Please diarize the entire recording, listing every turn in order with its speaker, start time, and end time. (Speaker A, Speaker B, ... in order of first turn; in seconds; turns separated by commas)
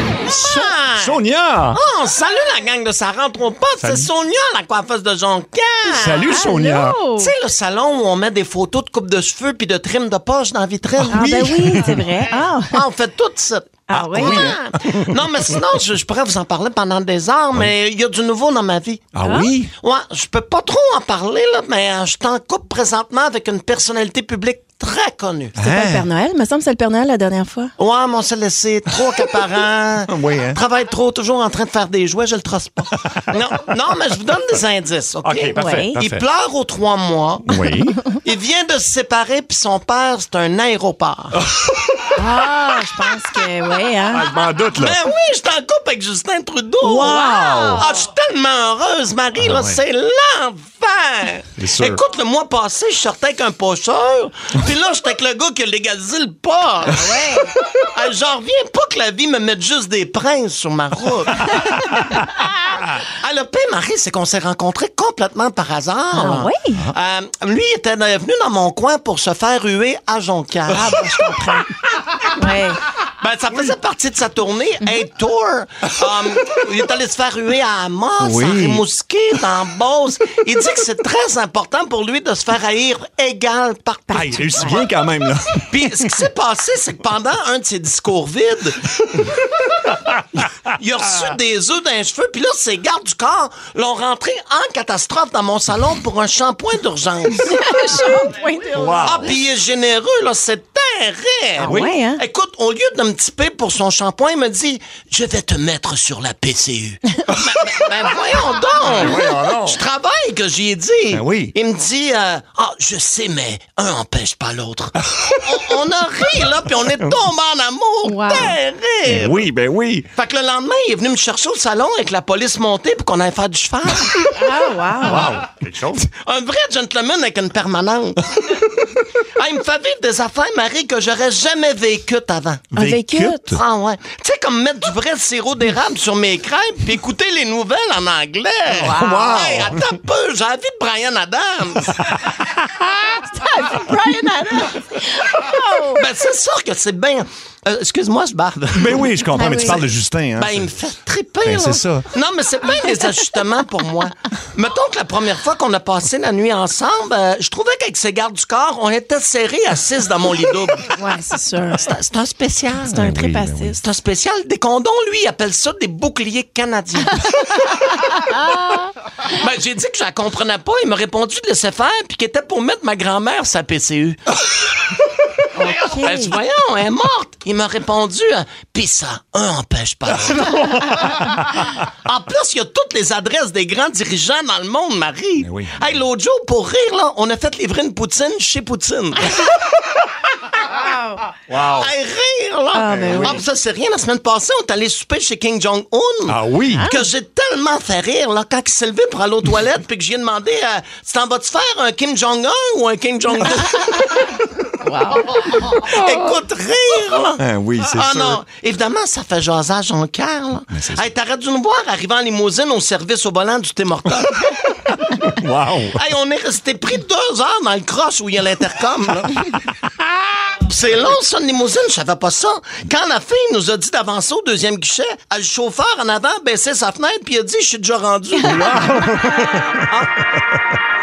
Speaker A: 0.3-1.2, Speaker B: 1.0-1.8, Speaker A: 1.7-6.4, Speaker B: 3.8-4.1, Speaker B: 5.9-7.0, Speaker C: 6.3-7.3, Speaker A: 7.2-11.9, Speaker B: 11.0-12.0, Speaker C: 11.1-12.8, Speaker A: 12.7-19.1, Speaker C: 13.9-14.5, Speaker B: 13.9-15.0, Speaker B: 19.1-19.7, Speaker C: 19.2-19.5, Speaker A: 19.8-25.6, Speaker B: 25.6-26.1, Speaker C: 25.6-27.7, Speaker A: 27.8-37.6, Speaker B: 30.1-30.6, Speaker B: 35.2-36.2, Speaker C: 35.5-36.0, Speaker B: 37.5-38.0, Speaker A: 38.2-41.4, Speaker C: 42.2-44.3, Speaker B: 44.1-45.0, Speaker A: 44.8-57.0, Speaker C: 46.8-47.8, Speaker B: 46.8-47.9, Speaker B: 49.4-49.8, Speaker B: 51.6-52.0, Speaker C: 56.9-57.5, Speaker A: 57.9-61.5, Speaker A: 63.1-71.0, Speaker C: 66.1-66.8, Speaker C: 70.7-71.7, Speaker C: 72.3-72.8, Speaker A: 73.2-84.8, Speaker B: 78.2-78.8, Speaker B: 84.1-85.8, Speaker A: 85.7-88.8, Speaker A: 90.7-97.7, Speaker C: 97.4-99.1, Speaker B: 98.7-99.3, Speaker A: 99.0-119.5, Speaker C: 101.6-102.2, Speaker B: 101.6-101.9, Speaker B: 108.8-109.8, Speaker B: 111.1-111.5, Speaker C: 118.0-118.5, Speaker B: 119.1-120.1, Speaker A: 120.2-124.3, Speaker C: 124.3-125.3, Speaker B: 125.0-126.1, Speaker A: 126.0-128.2, Speaker A: 129.4-132.7, Speaker B: 132.7-133.6, Speaker C: 132.8-133.6, Speaker A: 133.5-142.0, Speaker B: 138.7-139.8, Speaker C: 138.8-139.4, Speaker C: 143.3-146.0, Speaker A: 145.9-149.1, Speaker B: 148.8-150.7, Speaker C: 149.3-149.8, Speaker A: 150.4-160.9, Speaker B: 151.4-152.1, Speaker C: 160.9-161.9, Speaker A: 161.8-163.0, Speaker B: 162.9-163.8, Speaker C: 162.9-163.8, Speaker A: 163.8-167.4, Speaker A: 169.3-174.2, Speaker C: 175.6-176.4, Speaker A: 175.6-180.8, Speaker A: 182.1-189.3, Speaker B: 185.4-185.8, Speaker C: 190.7-191.2, Speaker B: 191.5-191.9, Speaker A: 191.5-204.2, Speaker C: 192.7-193.4, Speaker B: 192.9-193.4, Speaker B: 196.3-196.9, Speaker C: 196.8-197.0, Speaker C: 204.8-205.3, Speaker A: 205.2-214.6, Speaker B: 207.4-208.4, Speaker B: 210.7-211.1, Speaker B: 215.3-216.0, Speaker A: 216.0-219.3, Speaker A: 220.6-229.1, Speaker C: 228.4-229.7, Speaker B: 228.4-229.9